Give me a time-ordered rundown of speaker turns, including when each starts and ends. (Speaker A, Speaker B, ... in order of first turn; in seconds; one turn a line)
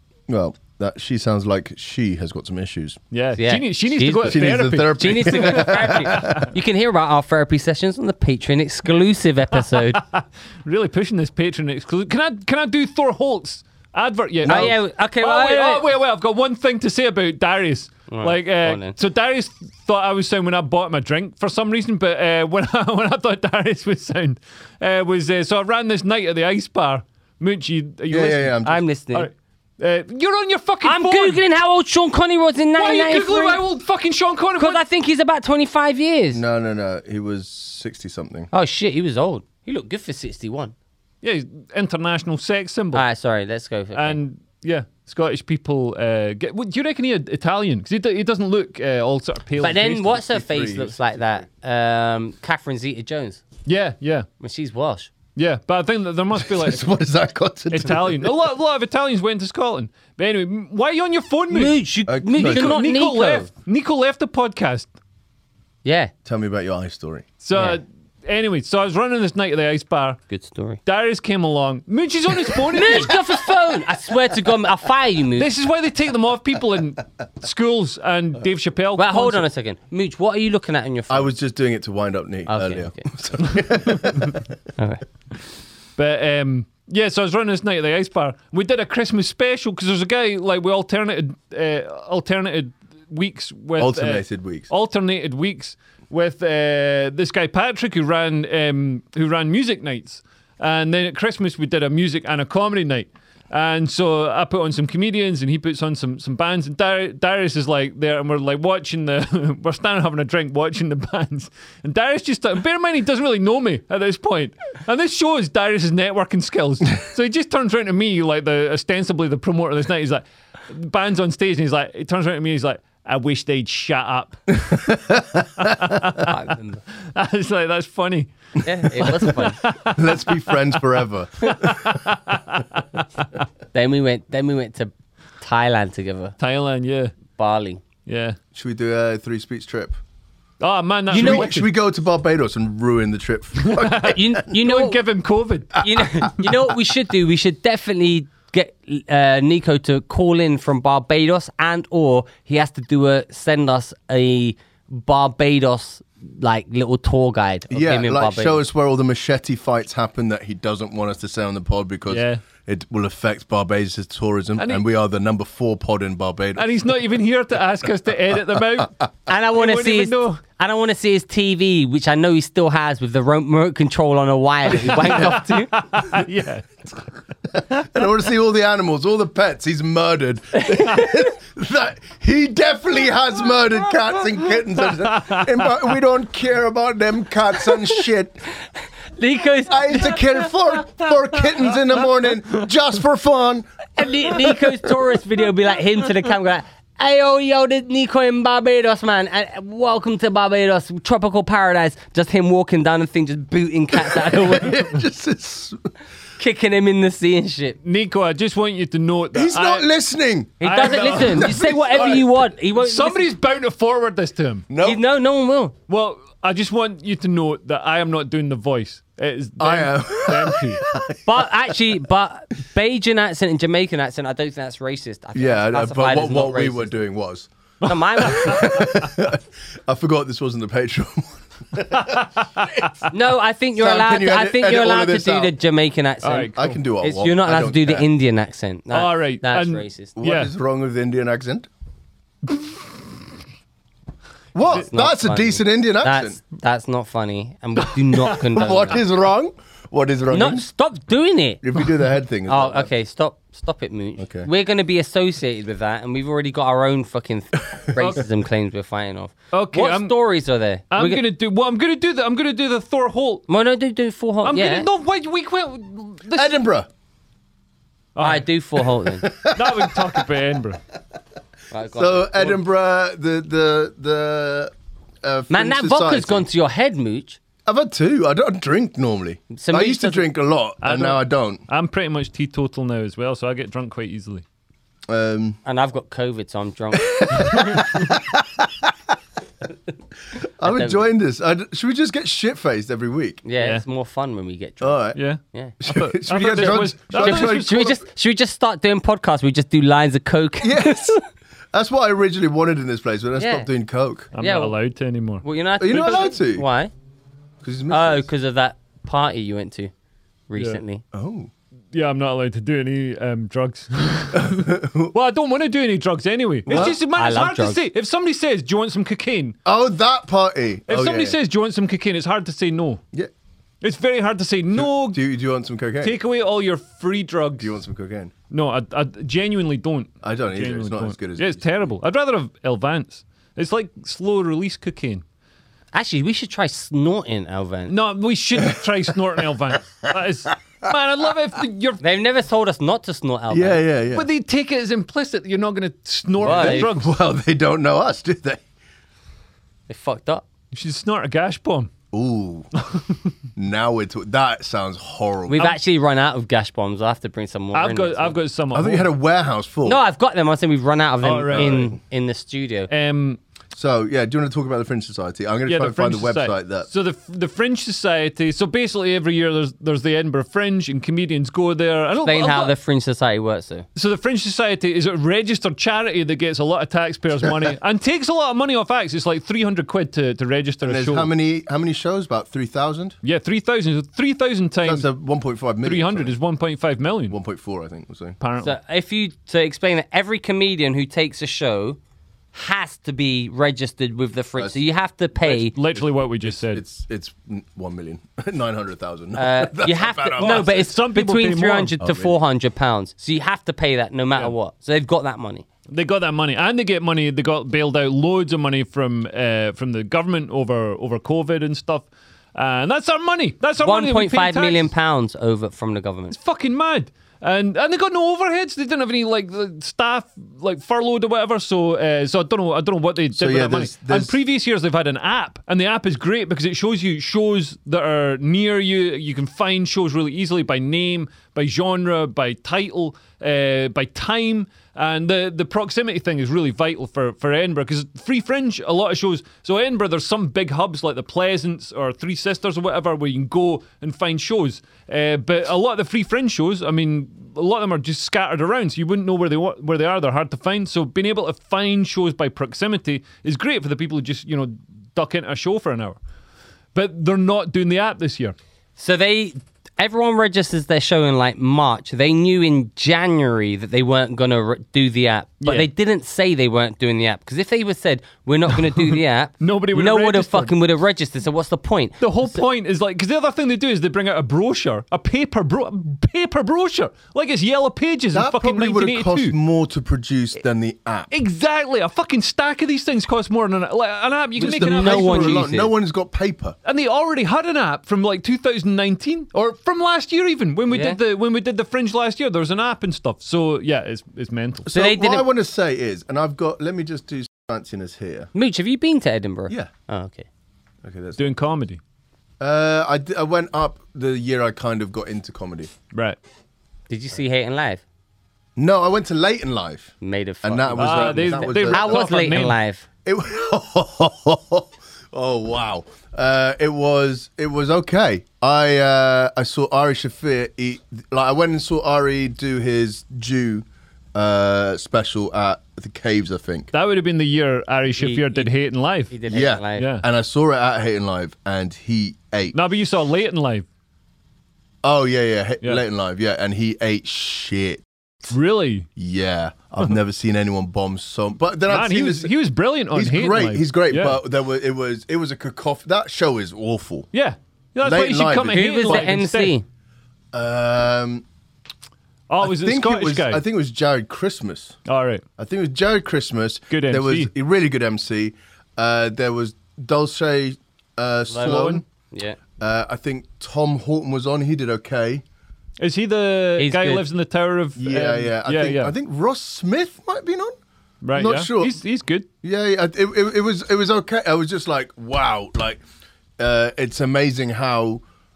Speaker A: 0.3-3.0
Speaker B: 3.1-5.8
Speaker C: 3.4-10.0
Speaker A: 4.2-6.5
Speaker B: 9.7-28.6
Speaker C: 14.4-15.8
Speaker A: 14.5-14.7
Speaker C: 18.1-18.9
Speaker A: 28.1-28.8
Speaker C: 28.6-29.3
Speaker B: 29.1-31.4
Speaker C: 30.8-33.6
Speaker B: 32.8-34.8
Speaker C: 34.6-36.4
Speaker A: 36.3-38.5
Speaker C: 38.5-40.7
Speaker B: 41.2-43.0
Speaker C: 42.9-44.2
Speaker B: 43.9-50.2
Speaker C: 49.6-53.5
Speaker A: 50.0-51.2
Speaker B: 53.7-54.3
Speaker C: 54.4-55.1
Speaker B: 55.4-56.9
Speaker A: 56.4-58.3
Speaker B: 57.7-61.8
Speaker C: 61.5-63.5
Speaker A: 62.1-62.8
Speaker B: 62.4-64.9
Speaker C: 65.8-66.1
Speaker A: 66.2-67.2
Speaker B: 67.4-70.2
Speaker C: 70.3-70.8
Speaker B: 70.9-73.2
Speaker C: 72.7-75.5
Speaker B: 75.4-79.4
Speaker C: 79.0-81.3
Speaker A: 81.1-84.4
Speaker C: 82.5-83.0
Speaker C: 84.8-85.0
Speaker B: 86.0-124.9
Speaker A: 93.8-94.7
Speaker A: 124.7-126.0
Speaker B: 125.6-126.3
Speaker C: 126.2-126.8
Speaker B: 127.1-128.3
Speaker C: 128.6-129.6
Speaker B: 128.9-130.4
Speaker A: 129.9-132.0
Speaker B: 131.4-133.2
Speaker C: 133.7-136.3
Speaker B: 136.4-137.2
Speaker C: 137.4-137.8
Speaker B: 138.1-138.4
Speaker A: 138.5-140.0
Speaker B: 140.6-141.7
Speaker C: 141.1-141.5
Speaker A: 141.1-144.4
Speaker B: 143.6-145.8
Speaker C: 144.0-145.0
Speaker C: 145.8-158.6
Speaker A: 146.0-146.5
Speaker A: 157.7-166.8
Speaker B: 162.1-162.4
Speaker B: 164.6-164.8
Speaker B: 166.6-169.0
Speaker C: 169.3-175.7
Speaker B: 169.5-170.3
Speaker B: 174.8-176.8
Speaker A: 177.5-188.4
Speaker C: 180.6-181.1
Speaker B: 185.0-185.5
Speaker C: 189.2-190.4
Speaker A: 189.7-193.7
Speaker C: 194.0-205.0
Speaker A: 204.0-205.9
Speaker C: 206.4-207.8
Speaker B: 207.8-209.9
Speaker A: 209.3-212.3
Speaker C: 210.6-213.3
Speaker B: 210.6-212.2
Speaker B: 212.8-214.7
Speaker A: 214.7-215.0
Speaker C: 214.8-215.7
Speaker B: 215.9-220.8
Speaker A: 219.6-221.5
Speaker C: 221.3-227.0
Speaker A: 225.3-227.5
Speaker C: 227.8-228.9
Speaker A: 228.2-232.2
Speaker B: 232.0-232.9
Speaker C: 233.1-240.2
Speaker A: 233.8-235.5
Speaker B: 236.2-236.8
Speaker A: 236.5-238.1
Speaker B: 238.9-240.5
Speaker A: 240.2-241.7
Speaker A: 244.5-246.4
Speaker C: 244.6-249.0
Speaker A: 248.5-250.7
Speaker C: 250.3-251.6
Speaker A: 251.6-252.9
Speaker C: 252.5-261.2
Speaker A: 254.2-254.5
Speaker B: 258.0-258.2
Speaker B: 259.5-260.2
Speaker B: 260.9-263.4
Speaker C: 263.5-264.9
Speaker B: 264.4-266.6
Speaker A: 266.3-266.9
Speaker B: 268.2-268.9
Speaker C: 268.2-269.3
Speaker A: 269.2-270.2
Speaker B: 269.4-270.8
Speaker C: 271.7-272.6
Speaker A: 271.9-274.7
Speaker A: 275.2-276.5
Speaker C: 275.5-277.4
Speaker A: 277.7-281.6
Speaker C: 279.5-280.2
Speaker B: 280.8-284.4
Speaker A: 285.1-285.6
Speaker C: 285.6-287.8
Speaker A: 287.0-288.9
Speaker A: 290.6-293.4
Speaker C: 290.6-291.1
Speaker C: 293.4-295.7
Speaker A: 294.8-295.2
Speaker B: 295.2-297.9
Speaker A: 295.8-298.0
Speaker C: 296.6-301.2
Speaker A: 300.6-301.2
Speaker A: 301.7-304.3
Speaker C: 303.4-303.7
Speaker B: 304.3-305.4
Speaker C: 304.4-304.8
Speaker C: 305.4-306.9
Speaker A: 305.8-306.6
Speaker A: 307.6-308.3
Speaker C: 307.9-309.9
Speaker C: 310.5-311.0
Speaker A: 311.1-311.5
Speaker B: 311.9-319.6
Speaker A: 314.3-315.1
Speaker A: 316.7-317.0
Speaker C: 316.7-317.8
Speaker A: 319.6-321.4
Speaker B: 320.9-323.0
Speaker B: 323.8-325.2
Speaker A: 324.7-326.2
Speaker B: 326.0-327.7
Speaker A: 327.6-328.3
Speaker B: 328.5-335.2
Speaker A: 330.2-331.8
Speaker C: 335.9-337.9
Speaker B: 337.9-342.0
Speaker C: 342.0-343.8
Speaker A: 343.5-344.3
Speaker B: 344.1-347.1
Speaker A: 346.4-348.6
Speaker C: 346.4-346.9
Speaker C: 349.9-350.4
Speaker B: 350.7-351.9
Speaker A: 352.1-352.7
Speaker A: 353.6-355.7
Speaker C: 355.5-358.4
Speaker B: 357.7-359.1
Speaker A: 358.7-360.0
Speaker C: 359.9-362.9
Speaker B: 361.2-361.9
Speaker A: 361.5-361.9
Speaker B: 362.9-363.4
Speaker A: 363.7-366.9
Speaker B: 365.7-372.7
Speaker C: 372.2-373.9
Speaker B: 373.9-381.3
Speaker A: 380.9-383.2
Speaker B: 383.2-385.1
Speaker A: 384.9-386.3
Speaker B: 385.8-387.4
Speaker A: 387.3-388.4
Speaker B: 388.4-388.8
Speaker C: 388.6-392.0
Speaker C: 392.5-395.7
Speaker B: 395.4-396.8
Speaker A: 396.0-400.9
Speaker C: 399.4-405.6
Speaker B: 400.4-402.0
Speaker A: 402.0-402.3
Speaker B: 405.9-414.9
Speaker C: 413.8-416.4
Speaker B: 416.3-456.2
Speaker A: 423.3-424.4
Speaker B: 456.9-458.6
Speaker C: 459.0-472.6
Speaker B: 469.6-470.7
Speaker B: 472.2-479.6
Speaker A: 478.3-481.3
Speaker B: 481.3-485.7
Speaker A: 484.6-486.8
Speaker C: 484.8-485.9
Speaker B: 486.9-494.9
Speaker C: 490.9-491.2
Speaker A: 494.9-498.5
Speaker C: 494.9-495.5
Speaker C: 498.5-500.5
Speaker A: 501.0-501.4
Speaker B: 501.4-502.0
Speaker A: 502.6-505.9
Speaker B: 506.1-506.4
Speaker C: 507.1-508.0
Speaker A: 508.8-512.2
Speaker C: 510.2-513.0
Speaker B: 511.0-512.8
Speaker A: 513.2-526.9
Speaker B: 526.9-529.3
Speaker C: 528.2-528.7
Speaker C: 529.3-530.1
Speaker A: 529.5-532.8
Speaker B: 530.0-530.2
Speaker B: 532.7-533.9
Speaker A: 535.0-538.0
Speaker B: 538.5-539.1
Speaker A: 539.2-542.5
Speaker B: 541.9-544.4
Speaker A: 543.1-547.3
Speaker B: 547.3-549.7
Speaker A: 548.0-549.4
Speaker C: 548.7-549.9
Speaker A: 550.5-551.5
Speaker B: 552.5-553.6
Speaker A: 552.6-555.0
Speaker B: 555.1-555.4
Speaker A: 555.6-562.0
Speaker B: 556.9-557.5
Speaker C: 561.5-562.6
Speaker B: 561.6-562.0
Speaker A: 562.8-565.4
Speaker B: 566.0-569.1
Speaker C: 566.8-567.2
Speaker A: 568.0-570.8
Speaker B: 571.2-572.5
Speaker A: 571.4-572.0
Speaker A: 572.6-576.0
Speaker A: 576.6-578.2